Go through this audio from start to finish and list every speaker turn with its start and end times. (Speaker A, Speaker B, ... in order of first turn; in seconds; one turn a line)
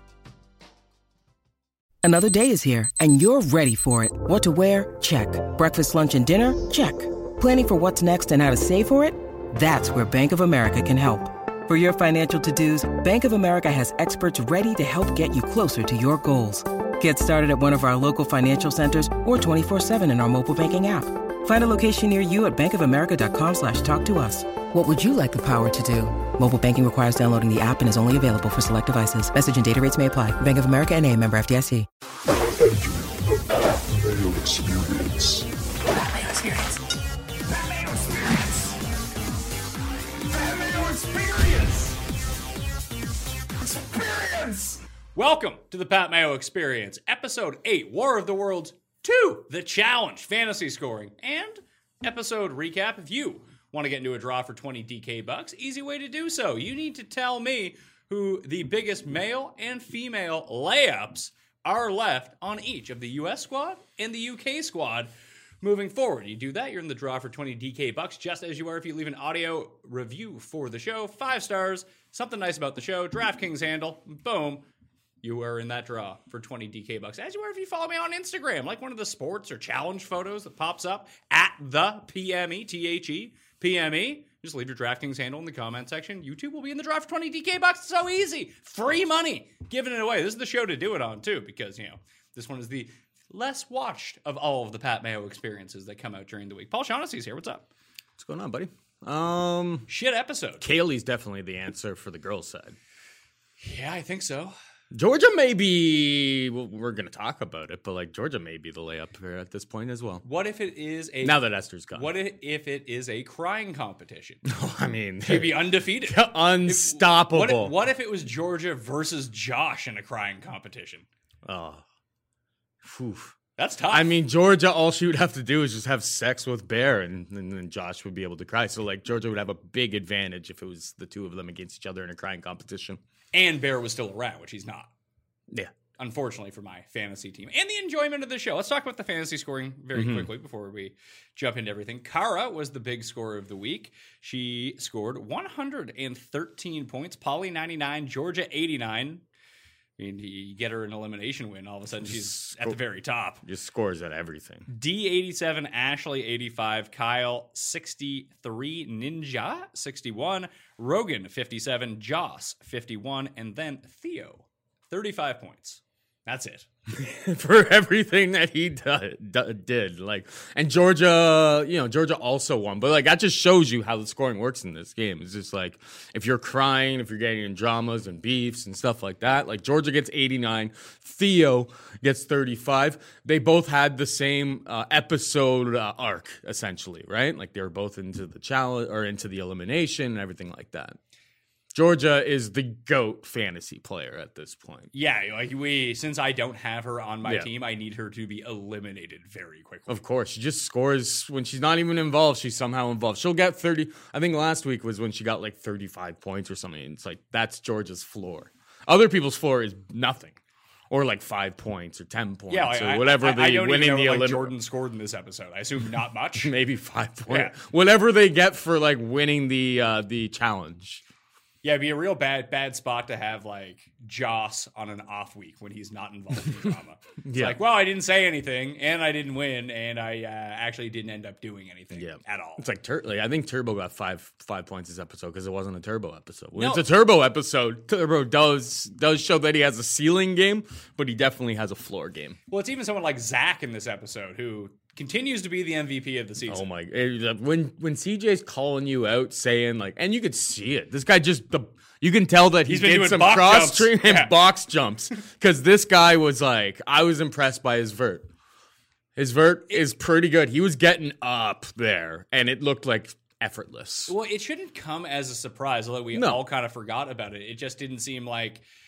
Speaker A: 2.0-31.9
Speaker B: 32.6-33.2
Speaker B: 33.8-35.4
Speaker C: 37.5-38.7
Speaker C: 40.3-42.0
Speaker C: 43.6-44.8
Speaker D: 45.1-74.7
Speaker D: 75.2-97.7
Speaker C: 98.2-99.9
Speaker D: 99.9-100.7
Speaker C: 100.6-102.8
Speaker D: 103.6-104.5
Speaker C: 104.9-110.2
Speaker D: 110.2-111.4
Speaker C: 111.2-112.1
Speaker D: 111.9-114.4
Speaker C: 114.5-117.7
Speaker D: 115.2-121.0
Speaker C: 121.4-121.8
Speaker C: 122.8-123.3
Speaker D: 123.6-124.1
Speaker C: 123.9-133.0
Speaker D: 133.3-134.9
Speaker D: 136.0-149.2
Speaker C: 139.9-140.3
Speaker D: 150.0-153.4
Speaker C: 152.0-152.8
Speaker C: 153.4-154.7
Speaker D: 154.7-166.7
Speaker C: 166.9-191.0
Speaker C: 191.7-194.9
Speaker D: 194.9-200.0
Speaker C: 199.9-210.3
Speaker C: 210.9-214.5
Speaker D: 212.5-216.5
Speaker C: 216.4-221.0
Speaker D: 217.3-217.5
Speaker D: 221.6-232.6
Speaker C: 227.2-227.6
Speaker C: 231.9-242.4
Speaker D: 236.6-236.8
Speaker D: 242.5-246.6
Speaker C: 246.5-258.2
Speaker D: 252.7-254.3
Speaker C: 259.1-264.1
Speaker D: 264.1-268.6
Speaker C: 266.1-266.4